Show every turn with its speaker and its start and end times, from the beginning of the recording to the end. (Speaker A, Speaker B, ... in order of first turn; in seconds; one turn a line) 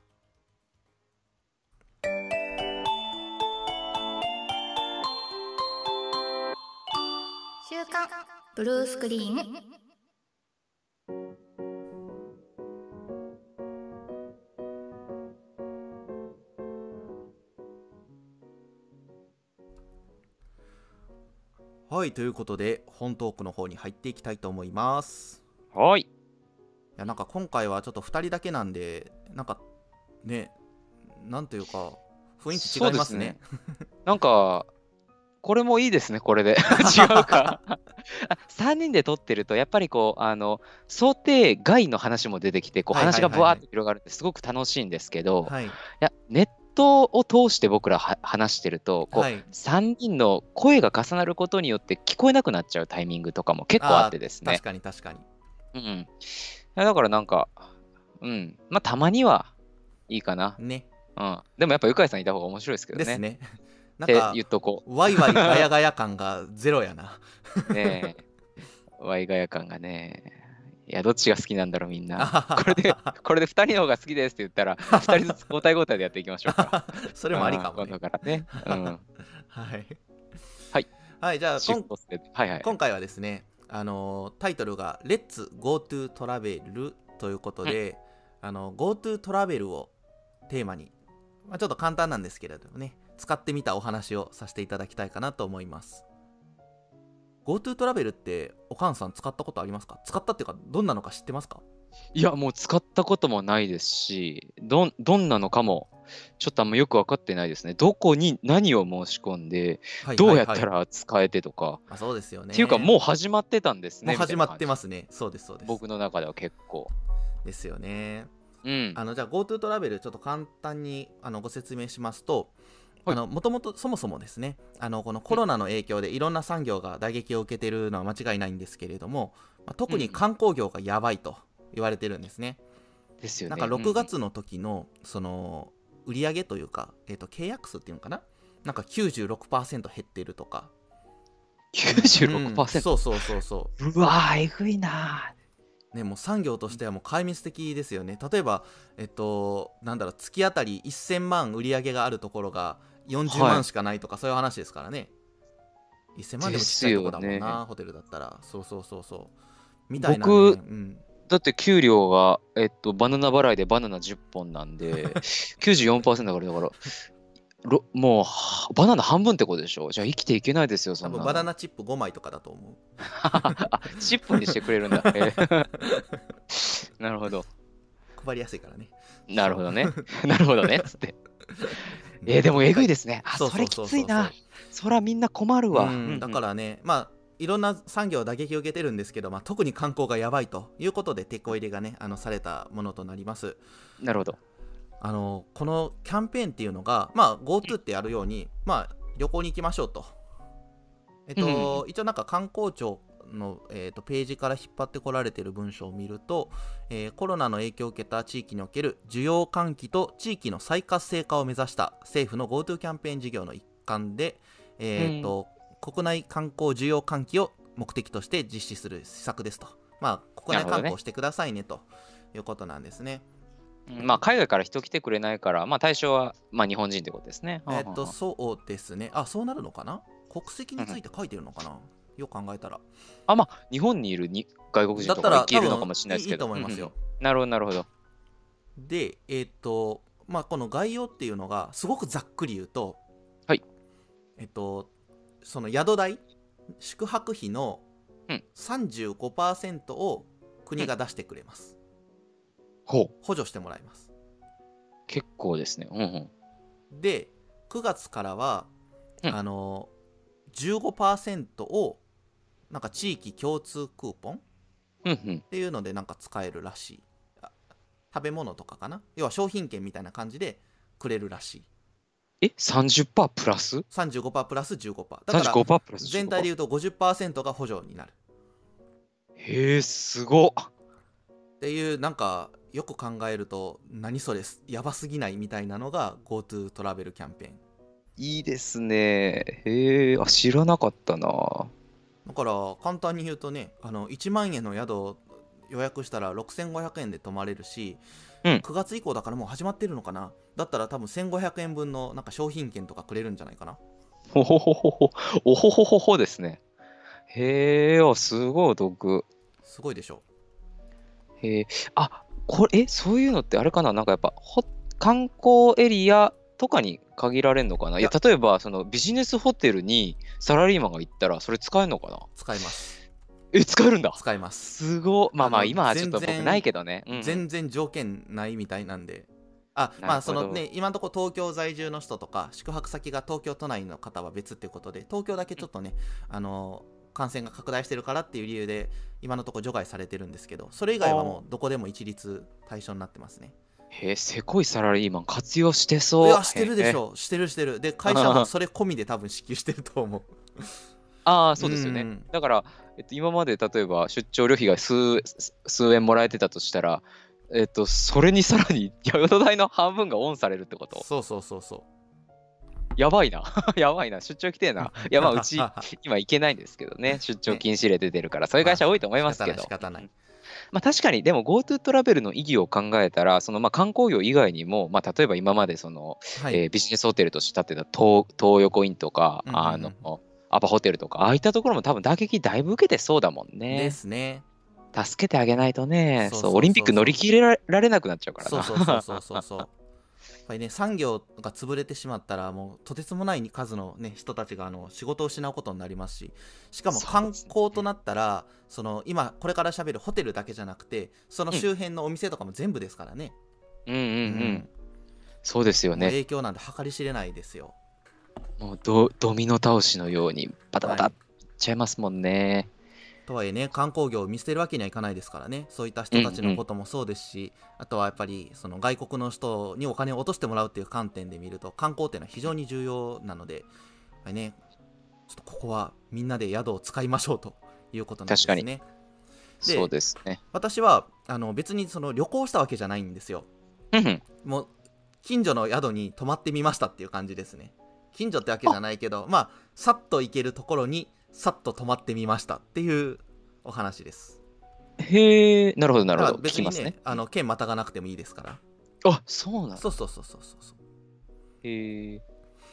Speaker A: 7.6-9.6
Speaker B: 21.9-25.4
Speaker C: 25.7-26.1
Speaker B: 27.0-29.6
Speaker B: 30.2-30.5
Speaker B: 31.1-33.4
Speaker C: 32.5-33.4
Speaker C: 34.0-34.7
Speaker C: 35.4-54.6
Speaker B: 36.8-37.6
Speaker B: 42.9-43.6
Speaker B: 45.4-45.8
Speaker B: 49.1-49.5
Speaker B: 53.8-55.2
Speaker C: 55.7-57.6
Speaker C: 58.2-59.5
Speaker C: 60.1-60.6
Speaker B: 60.6-60.9
Speaker C: 61.1-63.2
Speaker B: 62.9-68.1
Speaker C: 64.1-65.7
Speaker C: 67.7-68.2
Speaker C: 69.0-76.7
Speaker B: 72.2-73.1
Speaker B: 74.9-75.4
Speaker B: 76.5-78.0
Speaker C: 77.3-79.0
Speaker B: 78.6-78.9
Speaker B: 79.4-80.0
Speaker B: 81.2-81.9
Speaker C: 81.6-82.7
Speaker B: 82.6-89.9
Speaker B: 90.5-90.9
Speaker B: 91.5-96.0
Speaker B: 97.4-101.6
Speaker C: 102.1-111.8
Speaker B: 110.0-110.7
Speaker B: 111.9-112.9
Speaker C: 112.5-114.7
Speaker B: 114.0-115.8
Speaker C: 115.6-116.9
Speaker B: 117.4-118.3
Speaker C: 118.6-119.0
Speaker B: 118.9-122.5
Speaker B: 123.0-132.6
Speaker C: 129.9-130.2
Speaker C: 133.2-134.1
Speaker B: 133.5-140.7
Speaker C: 141.7-142.9
Speaker B: 141.9-143.7
Speaker C: 143.8-145.3
Speaker B: 145.9-155.1
Speaker C: 153.3-153.7
Speaker B: 156.2-159.3
Speaker C: 156.4-157.6
Speaker B: 159.9-161.0
Speaker C: 160.0-160.6
Speaker C: 161.3-166.9
Speaker C: 167.6-171.5
Speaker B: 171.0-173.6
Speaker C: 173.1-175.8
Speaker B: 174.4-176.1
Speaker C: 176.5-177.4
Speaker B: 178.2-178.9
Speaker C: 179.3-181.1
Speaker B: 179.4-180.0
Speaker B: 181.6-184.3
Speaker C: 182.2-186.4
Speaker B: 185.7-193.6
Speaker C: 194.0-194.4
Speaker B: 195.0-200.1
Speaker B: 201.3-223.2
Speaker C: 201.4-201.8
Speaker C: 215.0-215.3
Speaker C: 220.5-220.9
Speaker C: 223.9-228.1
Speaker B: 227.7-232.8
Speaker C: 233.3-237.8
Speaker B: 235.0-237.0
Speaker B: 238.8-243.0
Speaker B: 244.4-244.9
Speaker B: 245.4-246.2
Speaker B: 246.8-247.8
Speaker B: 248.5-251.7
Speaker B: 253.2-254.1
Speaker C: 255.1-256.3
Speaker B: 256.9-258.7
Speaker B: 259.3-259.9
Speaker B: 260.5-262.0
Speaker B: 262.7-264.4
Speaker C: 265.0-265.4
Speaker B: 265.5-267.5
Speaker B: 268.1-271.7
Speaker C: 272.4-273.8
Speaker B: 273.9-278.1
Speaker C: 275.3-276.5
Speaker C: 279.4-280.7
Speaker B: 281.6-287.6
Speaker C: 288.2-291.7
Speaker B: 292.2-298.0
Speaker B: 298.6-303.8
Speaker C: 304.3-306.6
Speaker C: 307.3-309.2
Speaker B: 309.6-310.2
Speaker C: 311.4-322.3
Speaker B: 322.3-323.0
Speaker C: 323.5-327.4
Speaker B: 324.1-324.8
Speaker B: 325.4-343.5
Speaker C: 330.0-330.6
Speaker C: 341.0-341.4
Speaker C: 343.9-347.0
Speaker B: 346.2-350.8
Speaker C: 348.1-348.5
Speaker C: 351.2-361.1
Speaker B: 351.6-352.2
Speaker B: 360.9-361.8
Speaker C: 363.0-369.7
Speaker B: 364.8-365.9
Speaker B: 368.6-370.1
Speaker C: 370.7-383.9
Speaker B: 376.4-376.6
Speaker B: 379.4-380.0
Speaker B: 383.7-384.4
Speaker C: 384.9-389.4
Speaker B: 386.2-387.2
Speaker B: 388.4-389.7
Speaker B: 390.5-403.3
Speaker C: 396.9-397.5
Speaker C: 403.9-404.6
Speaker B: 404.3-404.7
Speaker C: 405.4-406.1
Speaker B: 405.9-407.7
Speaker C: 408.6-412.7
Speaker B: 410.8-411.1
Speaker B: 413.3-423.7
Speaker C: 416.1-416.6
Speaker B: 424.2-424.6
Speaker B: 425.3-428.8
Speaker C: 428.3-428.6
Speaker C: 429.6-430.4
Speaker B: 429.6-429.9
Speaker B: 430.5-433.5
Speaker C: 433.9-434.2
Speaker B: 434.4-434.7
Speaker B: 435.2-444.4
Speaker C: 445.0-447.2
Speaker B: 446.1-448.6
Speaker C: 449.0-449.8
Speaker B: 449.8-450.8
Speaker C: 451.6-452.2